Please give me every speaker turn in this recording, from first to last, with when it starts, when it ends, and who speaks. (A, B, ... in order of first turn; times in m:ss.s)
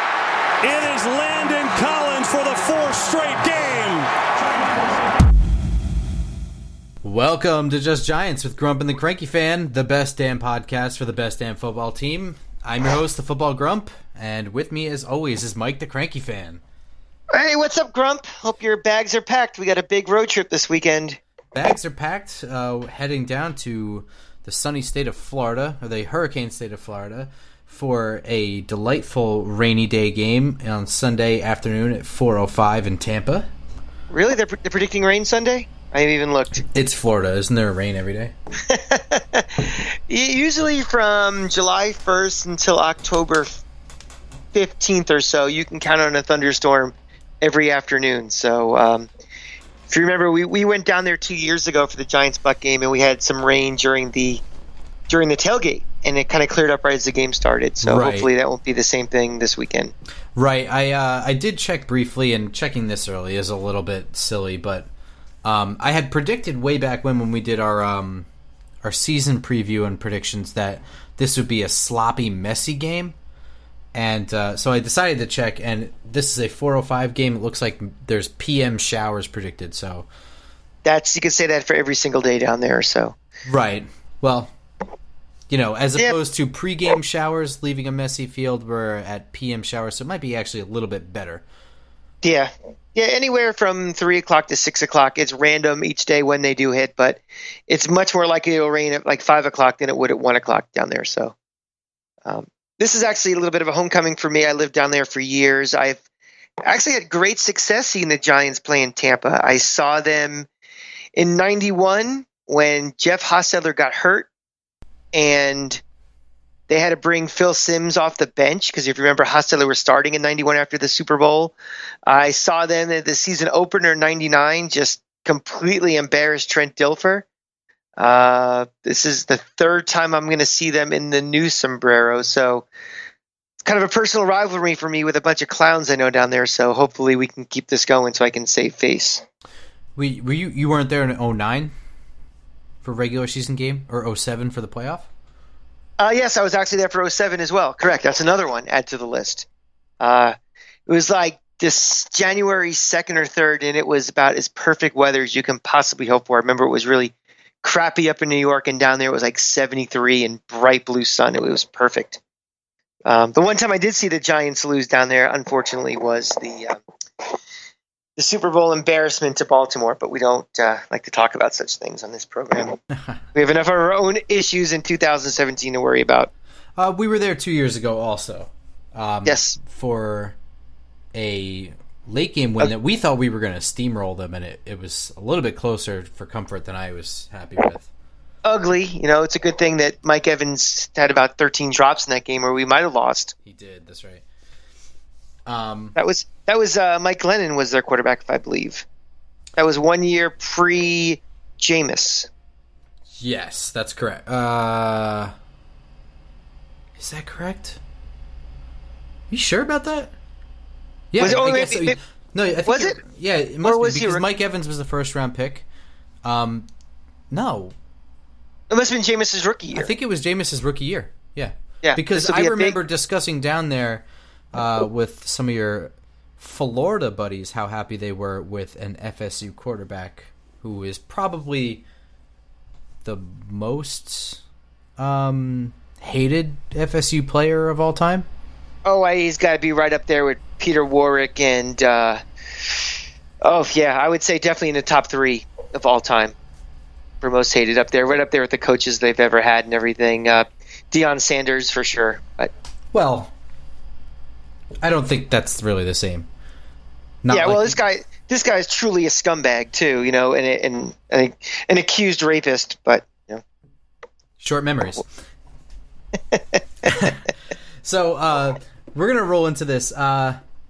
0:00.6-0:04.1 A
0:07.0-0:16.6 B
0:17.3-0:21.2 C
0:21.5-0:33.5 B
0:34.1-0:36.6 C
0:36.7-0:38.3 B
0:38.7-0:43.6 C
0:44.5-0:49.1 C
0:49.9-0:54.4 C
0:55.1-0:59.9 C
0:57.8-0:58.3 B
1:00.4-1:04.9 B
1:05.4-1:08.3 B
1:08.8-1:13.1 B
1:13.9-1:20.1 B
1:20.8-1:23.2 C
1:23.4-1:24.5 B
1:25.5-1:31.4 B
1:32.2-1:41.3 C
1:42.2-1:46.0 C
1:46.6-1:50.5 C
1:51.2-1:54.3 C
1:55.1-1:55.8 C
1:56.7-2:01.5 C
2:02.1-2:07.3 C
2:08.0-2:12.7 C
2:13.6-2:19.2 C
2:20.0-2:21.7 B
2:22.8-2:25.1 B
2:26.0-2:29.4 C
2:30.0-2:30.3 C
2:30.9-2:42.2 C
2:43.0-2:46.8 C
2:48.2-2:52.8 C
2:53.3-2:56.3 C
2:56.8-3:00.4 B
2:59.2-2:59.6 C
3:01.1-3:07.9 B
3:08.4-3:13.3 C
3:13.4-3:14.2 B
3:15.5-3:16.0 B
3:16.0-3:18.8 C
3:19.6-3:22.3 C
3:23.2-3:25.3 B
3:27.0-3:27.8 B
3:29.3-3:30.1 B
3:31.1-3:35.6 B
3:31.2-3:32.0 C
3:32.7-3:33.0 C
3:33.6-3:34.2 C
3:36.2-3:36.6 B
3:37.3-3:37.7 B
3:38.7-3:39.9 C
3:39.7-3:51.8 B
3:41.8-3:42.8 C
3:53.0-3:54.4 B
3:55.0-3:58.2 B
3:58.8-4:02.9 C
4:03.4-4:06.3 C
4:07.2-4:12.5 C
4:12.9-4:13.3 B
4:14.8-4:16.3 B
4:17.2-4:17.8 B
4:17.3-4:23.4 C
4:24.4-4:25.0 B
4:26.3-4:27.1 C
4:26.8-4:27.2 B
4:27.8-4:30.4 B